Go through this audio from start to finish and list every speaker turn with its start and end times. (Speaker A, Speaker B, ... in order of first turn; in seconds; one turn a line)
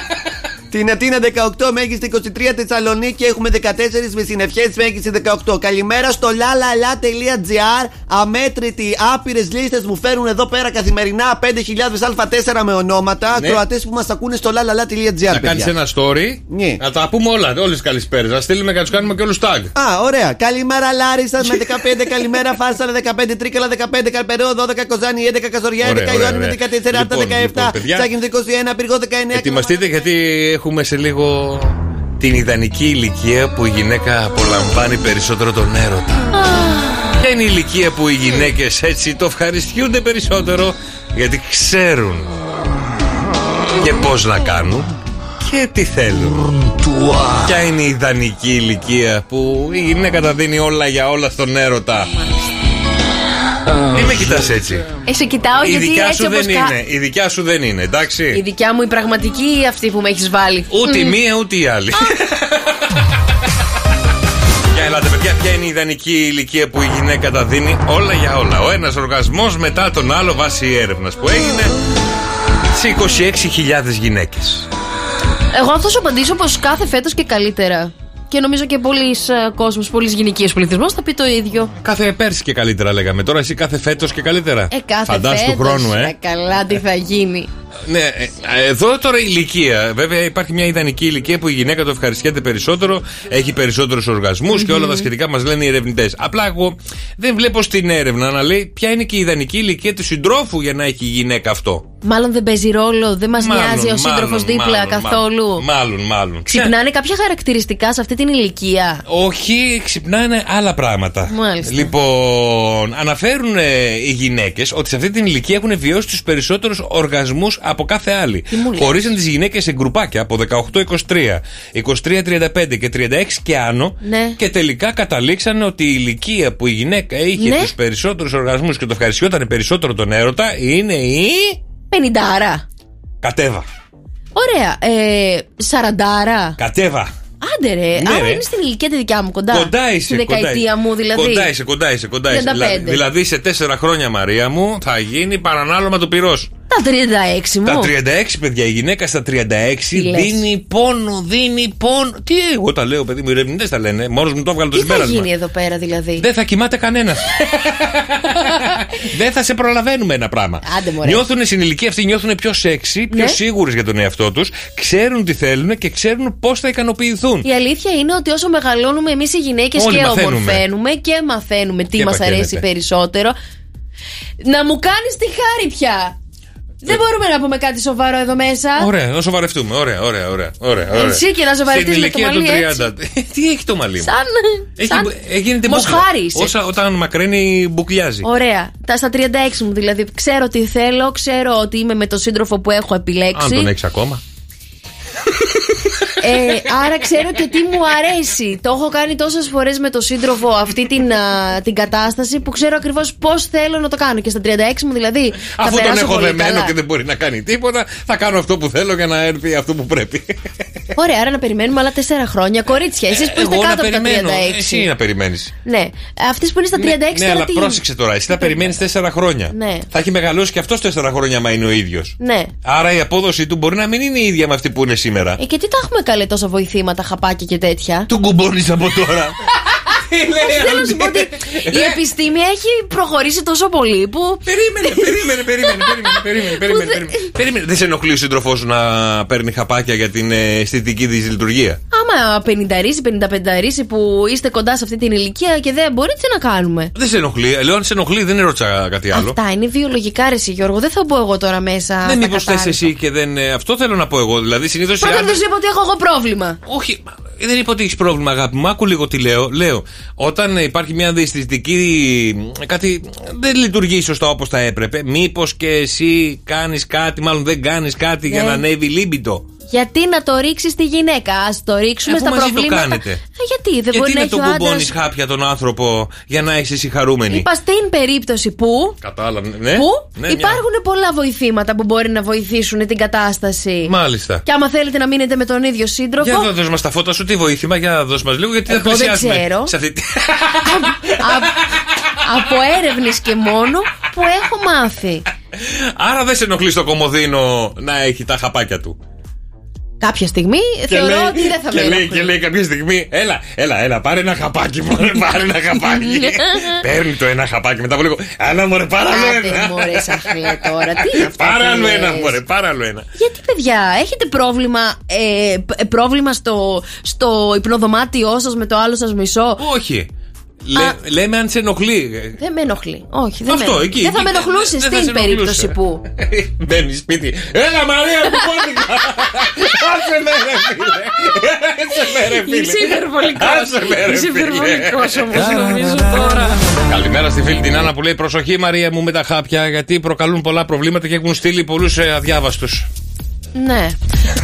Speaker A: 0.7-15.7
Speaker B: 15.3-19.7
Speaker A: 16.5-16.8
Speaker A: 19.8-29.7
Speaker B: 25.8-28.1
Speaker B: 29.3-36.3
Speaker C: 36.5-36.9
Speaker B: 37.2-42.3
Speaker B: 43.7-44.9
Speaker B: 45.4-46.5
Speaker B: 47.4-52.1
Speaker B: 53.9-54.9
Speaker C: 55.1-56.8
Speaker B: 55.6-58.4
Speaker C: 58.3-61.2
Speaker B: 60.7-63.0
Speaker B: 64.7-71.8
Speaker B: 72.7-74.7
Speaker C: 75.5-81.7
Speaker B: 81.8-86.1
Speaker C: 84.7-87.5
Speaker B: 87.9-101.8
Speaker C: 94.5-95.1
Speaker C: 102.0-105.6
Speaker B: 103.4-106.7
Speaker C: 106.5-109.0
Speaker B: 109.1-131.6
Speaker C: 111.3-111.9
Speaker C: 118.5-119.1
Speaker C: 124.0-124.4
Speaker C: 127.4-127.7
Speaker C: 131.9-132.7
Speaker B: 133.2-133.7
Speaker C: 134.3-136.6
Speaker B: 136.6-137.1
Speaker C: 137.4-141.5
Speaker B: 138.0-138.4
Speaker B: 139.5-146.5
Speaker C: 142.3-143.0
Speaker C: 146.7-147.9
Speaker B: 147.6-155.3
Speaker C: 149.9-150.4
Speaker C: 154.7-156.3
Speaker B: 156.2-167.5
Speaker C: 160.6-161.2
Speaker C: 163.1-163.4
Speaker C: 167.4-173.4
Speaker B: 169.8-170.6
Speaker B: 171.9-172.6
Speaker C: 174.4-176.2
Speaker C: 176.8-178.9
Speaker B: 178.8-184.1
Speaker C: 180.9-182.9
Speaker C: 184.0-185.1
Speaker B: 184.8-188.3
Speaker C: 185.7-186.5
Speaker C: 188.2-193.7
Speaker B: 193.3-194.2
Speaker C: 196.2-206.7
Speaker B: 205.4-210.4
Speaker C: 210.9-214.9
Speaker B: 213.1-215.5
Speaker C: 215.7-217.8
Speaker B: 216.8-225.4
Speaker C: 218.3-218.7
Speaker C: 219.5-219.9
Speaker C: 222.2-222.5
Speaker C: 225.4-228.1
Speaker B: 228.1-229.3
Speaker B: 229.9-232.0
Speaker C: 230.4-237.3
Speaker B: 234.5-241.8
Speaker C: 241.9-246.9
Speaker B: 246.9-249.4
Speaker C: 249.1-252.9
Speaker B: 252.0-255.4
Speaker C: 255.0-256.6
Speaker B: 256.6-269.4
Speaker C: 268.3-268.6
Speaker C: 269.7-274.9
Speaker B: 272.1-273.2
Speaker B: 273.9-277.5
Speaker C: 277.3-279.0
Speaker B: 279.0-280.6
Speaker C: 279.7-283.9
Speaker B: 283.9-284.4
Speaker C: 284.4-286.5
Speaker B: 286.2-291.8
Speaker C: 288.7-289.7
Speaker C: 290.7-291.6
Speaker C: 292.2-295.2
Speaker B: 295.6-299.0
Speaker C: 300.0-302.4
Speaker B: 300.9-313.1
Speaker C: 305.8-306.8
Speaker C: 309.1-312.4
Speaker C: 313.1-319.6
Speaker B: 319.6-320.1
Speaker B: 320.6-322.4
Speaker C: 322.4-326.0
Speaker B: 323.5-342.9
Speaker C: 332.3-336.6
Speaker C: 343.6-344.0